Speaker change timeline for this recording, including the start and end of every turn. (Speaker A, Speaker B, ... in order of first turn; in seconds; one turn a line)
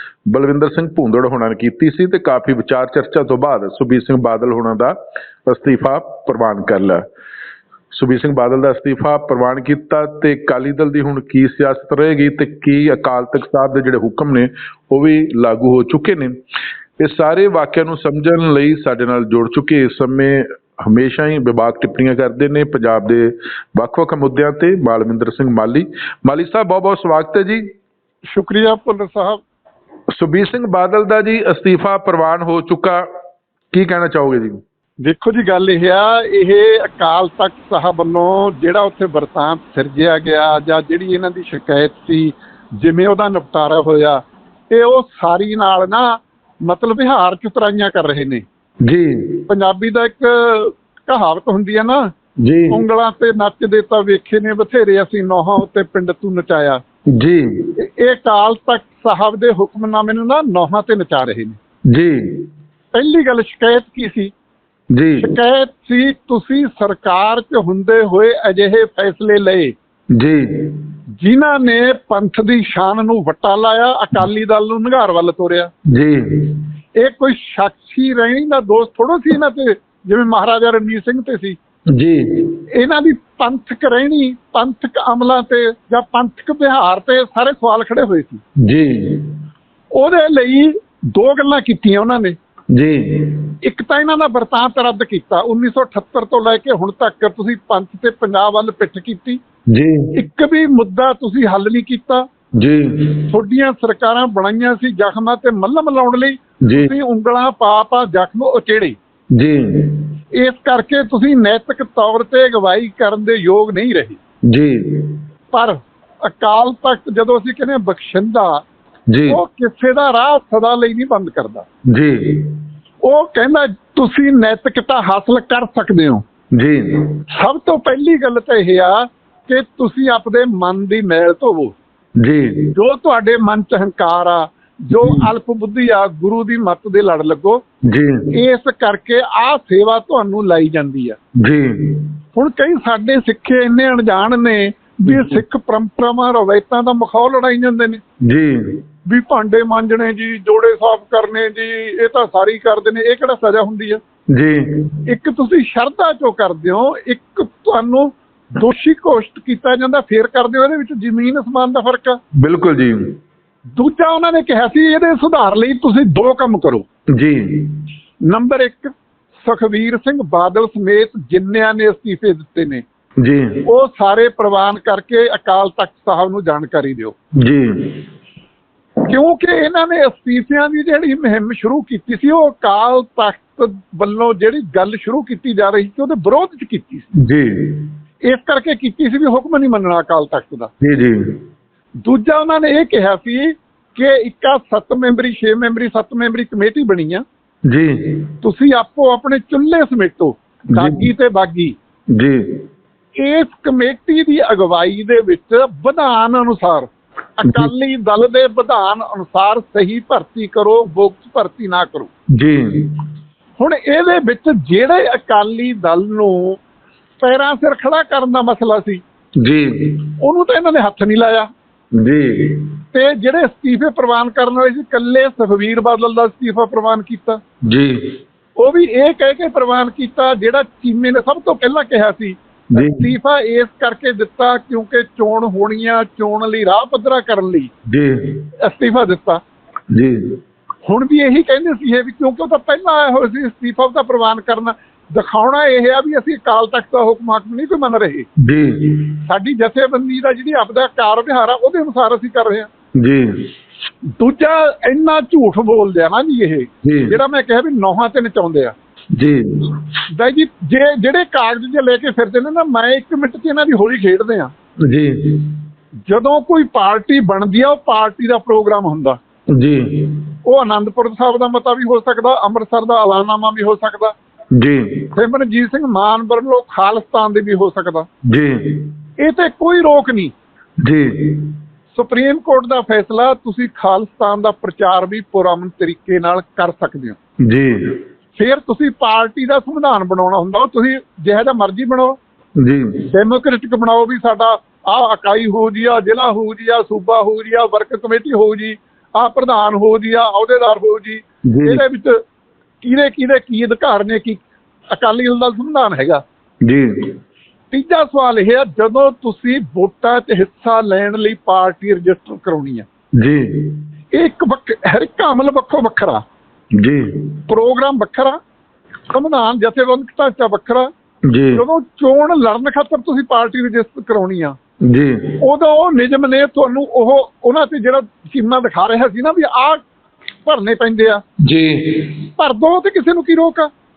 Speaker A: 0.3-4.9
Speaker A: 5.5-7.0
Speaker A: 7.9-16.4
Speaker A: 17.0-27.6
Speaker B: 28.3-29.4
Speaker A: 30.1-33.0
Speaker A: 33.7-34.6
Speaker B: 35.0-48.4
Speaker A: 48.9-49.4
Speaker B: 49.5-52.1
Speaker A: 52.4-52.8
Speaker B: 52.7-56.8
Speaker A: 57.1-57.7
Speaker B: 57.8-61.6
Speaker A: 61.9-62.5
Speaker B: 62.9-64.3
Speaker A: 64.9-65.3
Speaker B: 65.2-69.7
Speaker A: 70.2-70.8
Speaker B: 71.2-75.7
Speaker A: 75.9-76.6
Speaker B: 77.0-81.6
Speaker A: 81.9-82.5
Speaker B: 82.7-88.4
Speaker A: 88.6-89.3
Speaker B: 89.9-92.3
Speaker A: 92.7-93.4
Speaker B: 93.6-99.4
Speaker A: 99.7-100.0
Speaker B: 100.1-102.2
Speaker A: 102.6-103.2
Speaker B: 103.3-109.0
Speaker A: 106.6-106.9
Speaker A: 109.3-110.0
Speaker B: 110.3-114.2
Speaker A: 114.5-115.2
Speaker B: 115.5-118.6
Speaker A: 119.1-119.4
Speaker B: 119.3-121.7
Speaker A: 121.9-122.5
Speaker B: 123.0-126.2
Speaker A: 126.5-127.0
Speaker B: 127.3-131.7
Speaker A: 132.2-132.7
Speaker B: 132.7-137.6
Speaker A: 135.0-135.3
Speaker A: 137.9-138.3
Speaker B: 138.3-141.2
Speaker A: 141.4-142.1
Speaker B: 142.3-148.0
Speaker A: 148.2-148.8
Speaker B: 149.1-154.0
Speaker A: 154.3-155.0
Speaker B: 155.1-162.2
Speaker A: 162.4-163.1
Speaker B: 163.8-166.8
Speaker A: 167.1-167.8
Speaker B: 168.3-168.9
Speaker B: 169.4-172.8
Speaker A: 173.2-173.6
Speaker B: 173.7-177.1
Speaker A: 177.4-178.0
Speaker B: 179.1-187.1
Speaker A: 187.2-187.9
Speaker B: 188.2-190.7
Speaker A: 190.8-191.3
Speaker B: 192.0-197.2
Speaker A: 197.7-198.2
Speaker B: 198.4-201.7
Speaker A: 200.8-201.0
Speaker A: 202.2-202.4
Speaker B: 203.2-212.1
Speaker A: 212.3-212.9
Speaker B: 213.6-216.6
Speaker B: 217.2-219.0
Speaker A: 219.4-219.9
Speaker B: 220.2-221.5
Speaker A: 222.0-222.6
Speaker B: 222.9-227.4
Speaker A: 227.7-228.0
Speaker B: 228.6-237.7
Speaker A: 232.8-233.1
Speaker A: 237.9-238.4
Speaker B: 238.6-239.4
Speaker A: 239.9-240.3
Speaker B: 240.8-248.3
Speaker A: 248.4-249.1
Speaker B: 249.2-252.7
Speaker A: 253.0-253.4
Speaker B: 254.2-258.7
Speaker A: 256.8-257.1
Speaker A: 259.1-259.4
Speaker B: 260.1-264.5
Speaker A: 264.9-265.5
Speaker B: 266.1-269.2
Speaker A: 269.5-270.2
Speaker B: 270.4-274.1
Speaker A: 274.6-275.1
Speaker B: 275.1-278.1
Speaker A: 278.3-278.9
Speaker B: 279.2-280.3
Speaker A: 280.8-281.5
Speaker B: 281.9-287.2
Speaker A: 287.4-288.0
Speaker B: 288.4-292.2
Speaker A: 292.6-293.0
Speaker B: 293.1-302.2
Speaker A: 301.5-301.8
Speaker B: 302.8-304.4
Speaker B: 304.9-306.2
Speaker A: 306.6-307.1
Speaker B: 307.7-312.9
Speaker A: 313.2-313.8
Speaker B: 314.1-316.2
Speaker A: 316.8-317.0
Speaker B: 317.5-318.4
Speaker B: 319.1-320.9
Speaker A: 321.3-321.6
Speaker B: 321.5-324.6
Speaker A: 324.9-325.4
Speaker B: 325.4-329.8
Speaker B: 330.4-331.2
Speaker A: 331.4-332.1
Speaker B: 332.4-333.7